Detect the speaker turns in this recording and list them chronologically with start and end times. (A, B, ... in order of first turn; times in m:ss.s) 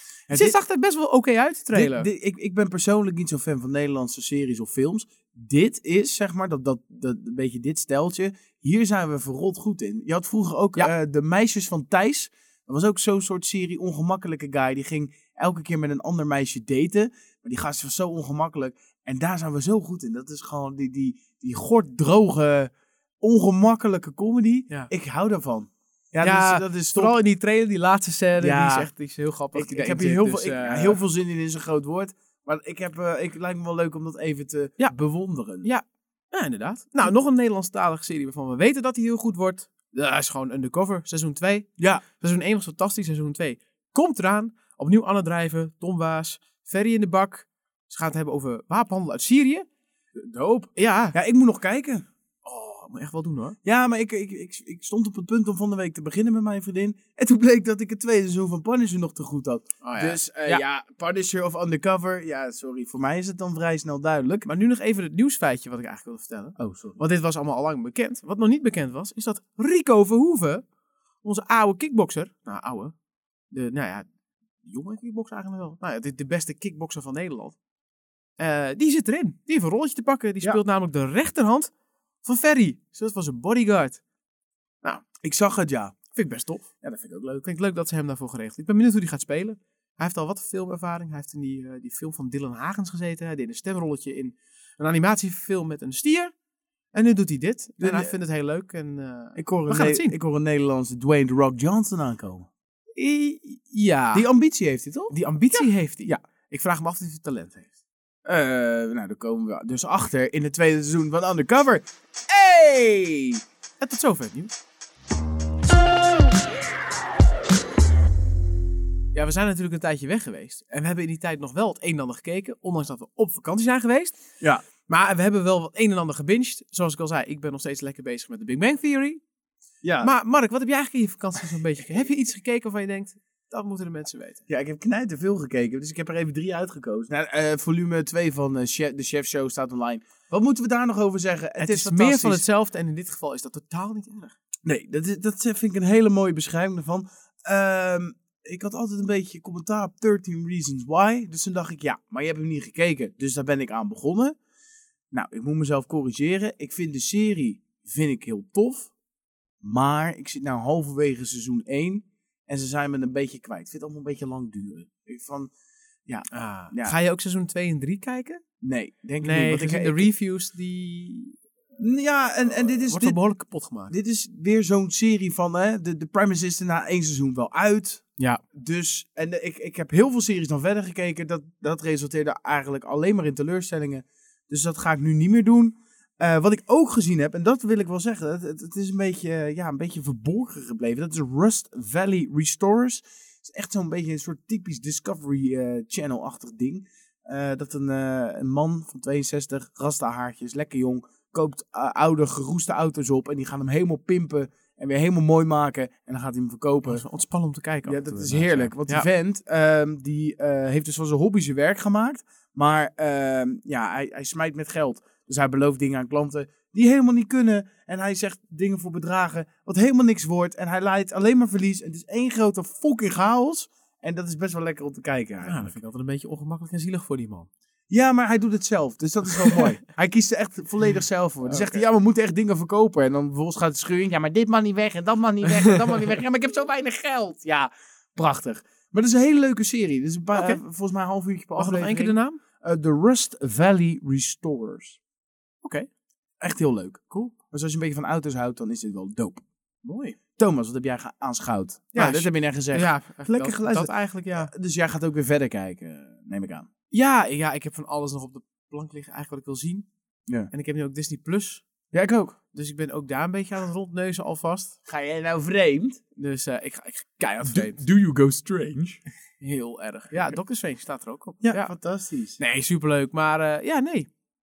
0:00.3-0:00.6 A
0:00.3-0:02.1 B
0:01.7-0:27.2 A
0:26.2-0:31.0 B
0:28.4-0:28.9 A
0:29.5-0:35.7 A
0:35.6-0:49.6 B
0:41.8-0:42.0 A
0:50.1-0:52.0 A
0:50.8-0:51.1 B
0:52.4-0:53.6 B
0:53.6-1:04.5 A
0:59.8-1:00.6 B
1:04.4-1:10.6 B
1:06.6-1:07.0 A
1:11.2-1:12.9 B
1:13.5-1:14.1 B
1:14.6-1:17.6 B
1:18.4-1:21.7 B
1:22.2-1:24.0 B
1:25.2-1:26.0 A
1:26.1-1:26.6 B
1:26.8-1:27.5 A
1:27.4-1:36.3 B
1:36.9-1:40.1 B
1:37.8-1:38.2 A
1:39.4-1:42.5 A
1:43.0-1:44.3 B
1:44.1-1:46.2 A
1:45.1-1:47.7 B
1:48.2-1:53.4 A
1:53.8-1:54.5 B
1:59.1-2:04.2 B
2:04.9-2:09.2 B
2:09.8-2:10.1 A
2:10.0-2:14.4 B
2:14.5-2:22.4 A
2:21.6-2:24.3 B
2:24.6-2:34.4 A
2:35.1-2:38.9 A
2:39.6-2:45.5 A
2:46.1-2:47.0 A
2:46.3-2:48.4 B
2:48.6-2:50.1 A
2:49.2-2:51.4 B
2:51.8-2:53.2 A
2:52.5-2:53.9 B
2:53.9-3:27.0 A
3:26.8-3:29.1 B
3:27.8-3:45.8 A
3:45.4-3:47.5 B
3:47.9-4:05.0 A
3:51.4-3:51.8 B
4:01.6-4:02.4 B
4:05.6-4:05.9 B
4:06.4-4:09.4 A
4:09.8-4:10.2 B
4:10.4-4:16.7 A
4:11.9-4:14.5 B
4:16.9-4:19.8 B
4:20.5-4:21.6 B
4:21.9-4:22.4 A
4:22.5-4:24.7 B
4:24.9-4:26.0 A
4:26.2-4:27.8 B
4:27.4-4:29.0 A
4:29.4-4:31.7 B
4:31.4-4:32.4 A
4:32.4-4:34.1 B